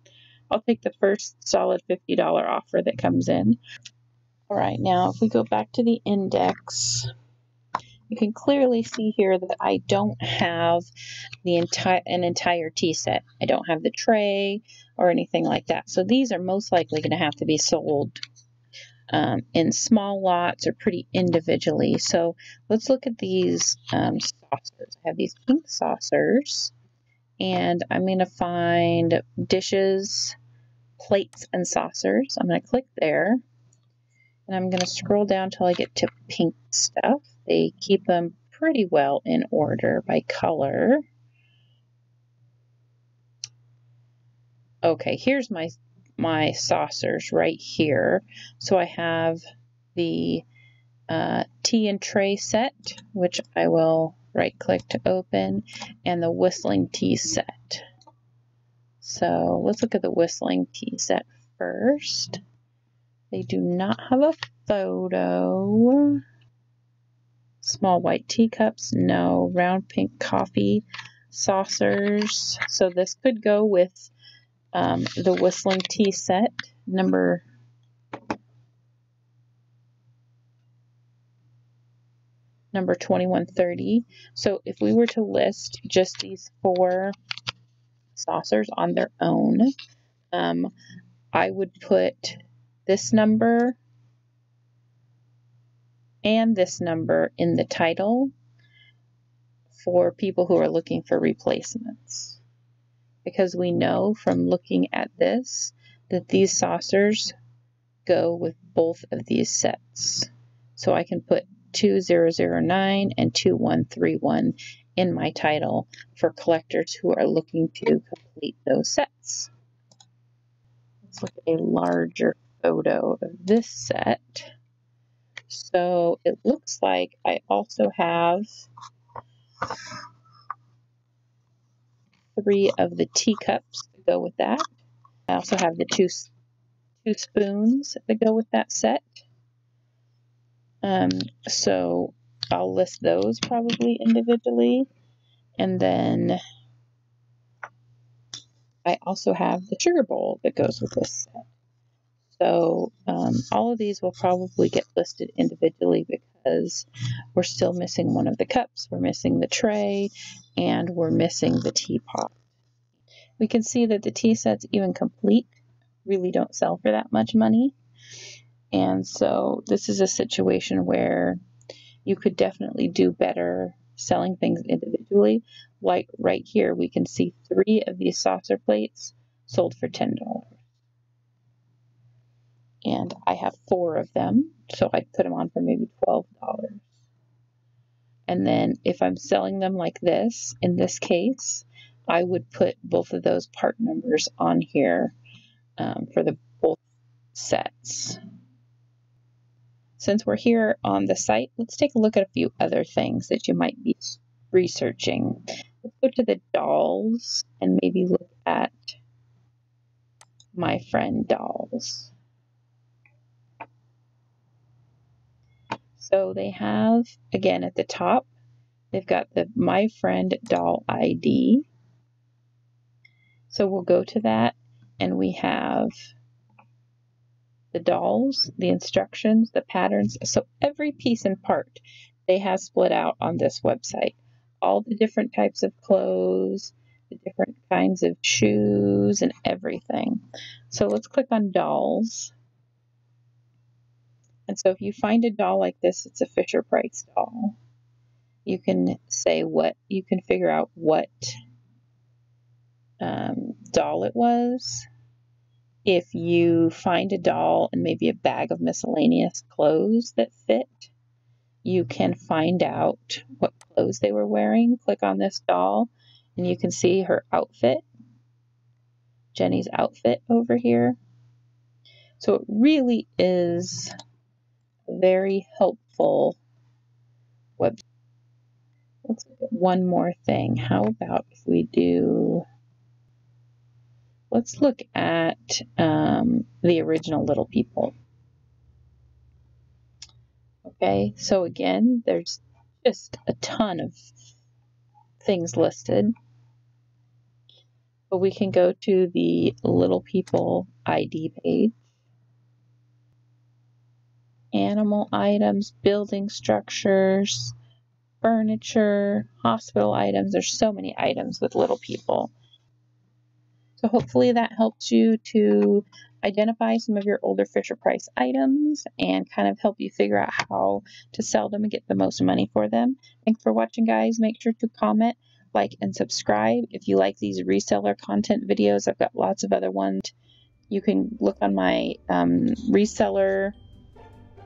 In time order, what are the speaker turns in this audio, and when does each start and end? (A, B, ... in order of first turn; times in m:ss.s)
0:00.5-0:03.6 A
0:04.5-0:07.1 A
0:08.1-0:10.9 A
0:11.4-0:18.2 A
0:19.1-0:26.7 A
0:27.4-0:30.4 A
0:31.0-0:33.4 A
0:34.5-0:41.0 A
0:44.8-0:49.4 A
0:49.9-0:50.4 A
0:51.1-0:57.8 A
0:59.0-1:02.4 A
1:03.3-1:06.2 A
1:07.6-1:14.1 A
1:14.7-1:17.4 A
1:22.7-1:27.1 A
1:28.1-1:29.7 A
1:30.3-1:30.7 A
1:31.3-1:33.8 A
1:36.2-1:38.3 A
1:39.8-1:42.4 A
1:43.2-1:47.3 A
1:48.0-1:59.5 A
2:01.0-2:04.5 A
2:05.5-2:08.4 A
2:12.3-2:14.6 A
2:15.3-2:16.3 A
2:17.0-2:19.2 A
2:20.8-2:24.9 A
2:25.6-2:26.4 A
2:28.8-2:31.5 A
2:32.3-2:42.4 A
2:43.4-2:45.5 A
2:46.0-2:47.7 A
2:48.7-2:51.4 A
2:52.0-3:00.6 A
3:02.8-3:06.8 A
3:08.3-3:15.1 A
3:15.8-3:16.8 A
3:17.3-3:18.2 A
3:20.0-3:29.0 A
3:30.5-3:32.1 A
3:36.0-3:38.3 A
3:38.9-3:41.7 A
3:43.5-3:45.9 A
3:47.7-4:02.3 A
4:04.5-4:07.6 A
4:08.4-4:11.3 A
4:13.0-4:14.9 A
4:15.8-4:20.9 A
4:21.6-4:27.8 A
4:29.3-4:31.0 A
4:32.2-4:33.9 A
4:34.9-4:36.4 A
4:39.0-4:42.4 A
4:44.3-4:47.9 A
4:50.6-4:54.0 A
4:55.2-4:56.1 A
4:58.1-5:01.8 A
5:04.5-5:07.5 A
5:08.2-5:12.3 A
5:13.8-5:30.1 A
5:30.7-5:33.5 A